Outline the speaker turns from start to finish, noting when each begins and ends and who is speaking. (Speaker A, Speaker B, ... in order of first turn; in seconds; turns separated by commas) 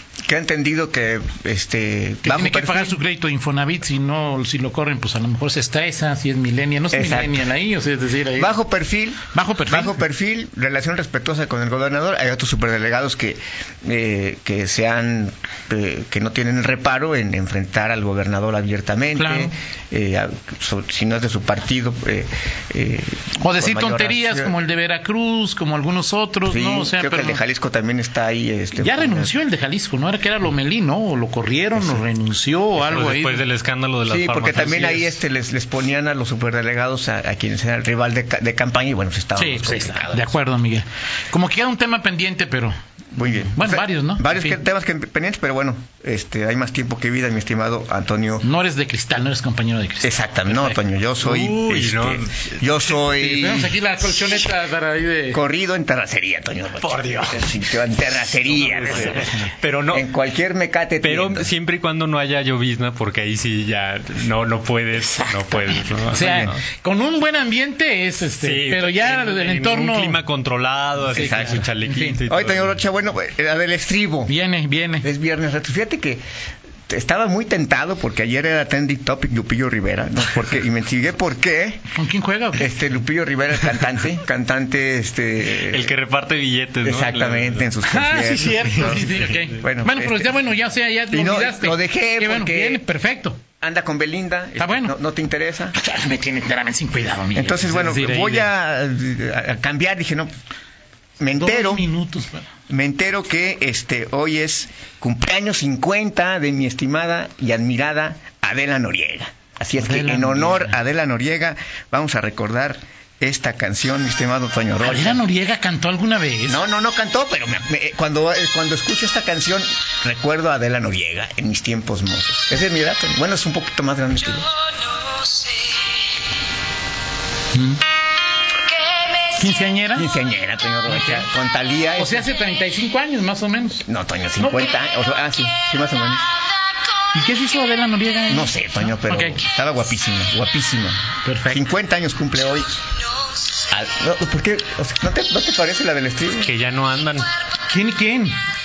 Speaker A: 0.3-3.0, Speaker B: 2.2-8.6, Speaker A: 6.9-7.4, Speaker A: 8.3-24.5, Speaker B: 9.3-10.0, Speaker B: 19.2-19.5, Speaker B: 23.4-27.4, Speaker A: 26.5-29.3, Speaker B: 28.8-33.5, Speaker C: 32.8-35.2, Speaker A: 34.1-40.3, Speaker B: 39.4-42.7, Speaker A: 43.1-48.4, Speaker B: 43.5-44.6, Speaker B: 48.4-50.8, Speaker A: 50.0-54.4, Speaker C: 51.2-52.5, Speaker B: 53.0-55.4, Speaker A: 55.3-59.3, Speaker C: 56.8-57.5, Speaker C: 58.5-60.1, Speaker B: 59.0-59.3, Speaker A: 59.9-61.5, Speaker C: 61.0-66.6, Speaker B: 65.2-70.2, Speaker C: 68.4-72.8, Speaker B: 71.1-72.2, Speaker A: 71.1-71.6, Speaker A: 72.3-74.3, Speaker B: 74.3-75.1, Speaker A: 75.0-76.2, Speaker A: 76.9-81.8, Speaker B: 81.9-82.8, Speaker A: 82.6-86.0, Speaker C: 85.6-87.7, Speaker A: 86.8-90.3, Speaker B: 87.8-93.4, Speaker C: 88.8-89.4, Speaker A: 91.1-92.8, Speaker A: 93.6-95.8, Speaker B: 94.6-94.9, Speaker B: 95.7-98.5, Speaker A: 97.3-100.3, Speaker A: 101.2-101.9, Speaker B: 101.3-102.5, Speaker A: 102.7-115.2, Speaker B: 109.8-110.8, Speaker B: 114.8-116.6, Speaker A: 116.5-124.5, Speaker B: 127.5-127.8, Speaker B: 129.3-130.1, Speaker A: 130.0-132.3, Speaker B: 130.9-131.3, Speaker B: 132.0-133.9, Speaker A: 133.8-136.3, Speaker B: 134.4-134.7, Speaker B: 137.1-139.4, Speaker A: 138.3-142.8, Speaker B: 141.2-141.7, Speaker A: 143.7-146.5, Speaker C: 146.4-147.3, Speaker B: 147.7-148.4